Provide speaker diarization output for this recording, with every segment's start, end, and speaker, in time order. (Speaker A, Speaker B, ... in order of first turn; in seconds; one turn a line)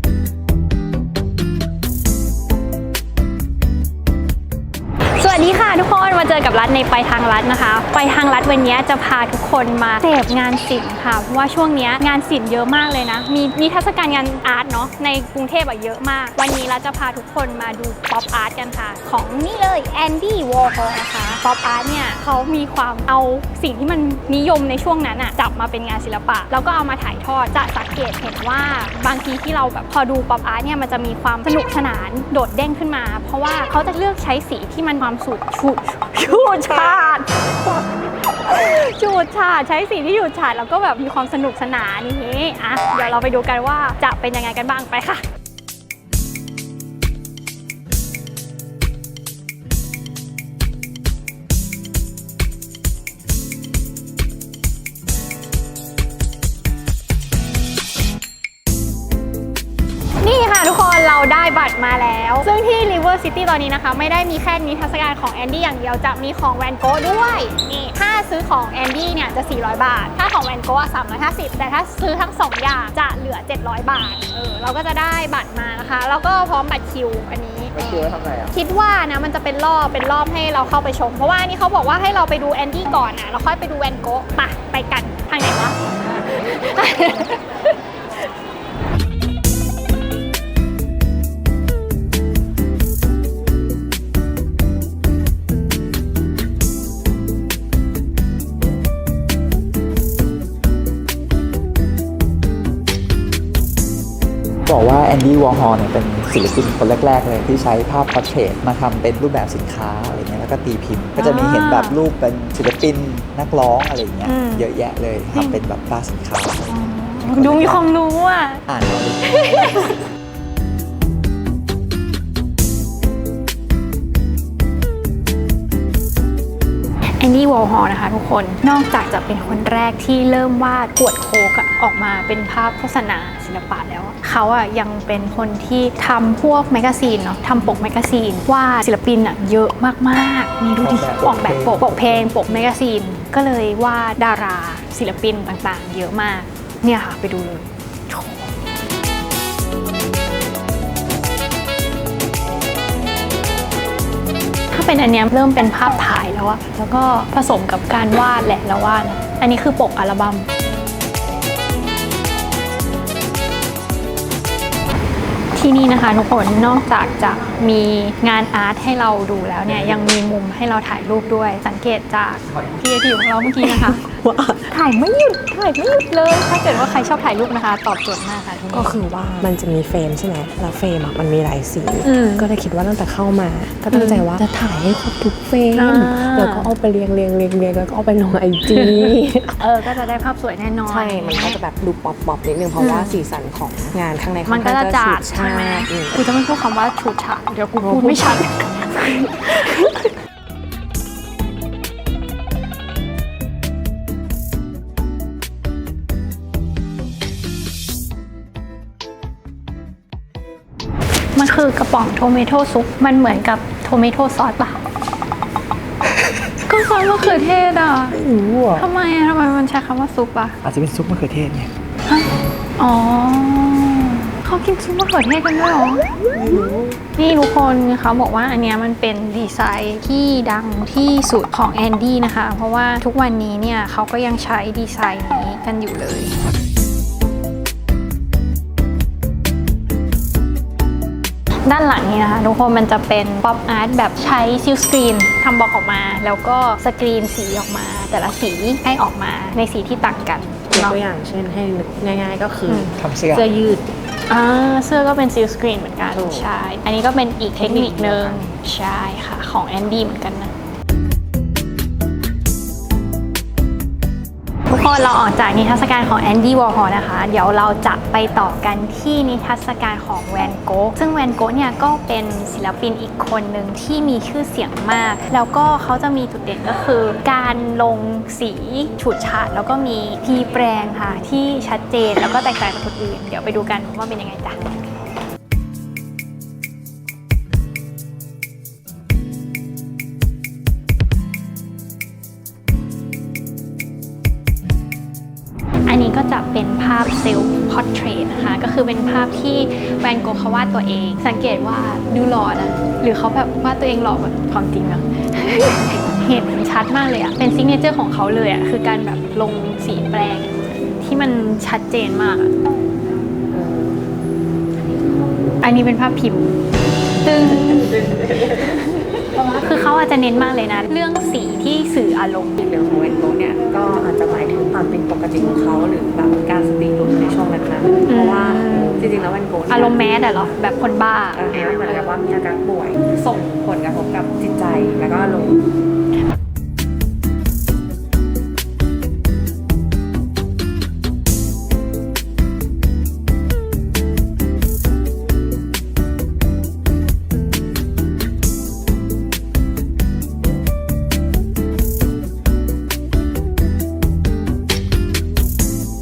Speaker A: 5.1-37.8
Speaker A: 38.4-45.2
Speaker A: 60.2-87.7
Speaker B: 104.7-117.9
Speaker A: 111.2-112.0
Speaker A: 114.2-114.7
Speaker A: 115.3-115.6
Speaker A: 116.7-118.6
Speaker B: 118.7-119.4
Speaker A: 119.2-120.0
Speaker A: 127.2-148.5
Speaker B: 140.8-142.7
Speaker A: 154.7-160.5
Speaker A: 165.5-174.1
Speaker C: 173.7-174.6
Speaker A: 174.7-179.5
Speaker C: 178.7-189.7
Speaker A: 182.0-182.4
Speaker A: 183.9-184.2
Speaker A: 185.7-186.7
Speaker A: 188.7-191.6
Speaker C: 190.9-196.2
Speaker A: 192.8-193.2
Speaker A: 194.4-200.1
Speaker C: 197.8-198.3
Speaker A: 211.3-214.8
Speaker A: 216.6-218.2
Speaker C: 218.1-218.8
Speaker A: 218.8-220.6
Speaker B: 220.6-221.7
Speaker A: 222.1-236.3
Speaker C: 226.3-227.0
Speaker A: 241.7-251.0
Speaker C: 250.7-253.8
Speaker A: 252.7-252.9
Speaker B: 253.0-253.5
Speaker A: 254.3-260.5
Speaker C: 256.1-256.5
Speaker C: 257.6-258.5
Speaker A: 264.7-284.9
Speaker A: 295.9-312.6
Speaker A: 315.6-316.5
Speaker A: 317.2-322.6
Speaker C: 322.6-330.4
Speaker A: 328.1-329.1
Speaker A: 329.7-331.8
Speaker C: 331.3-335.6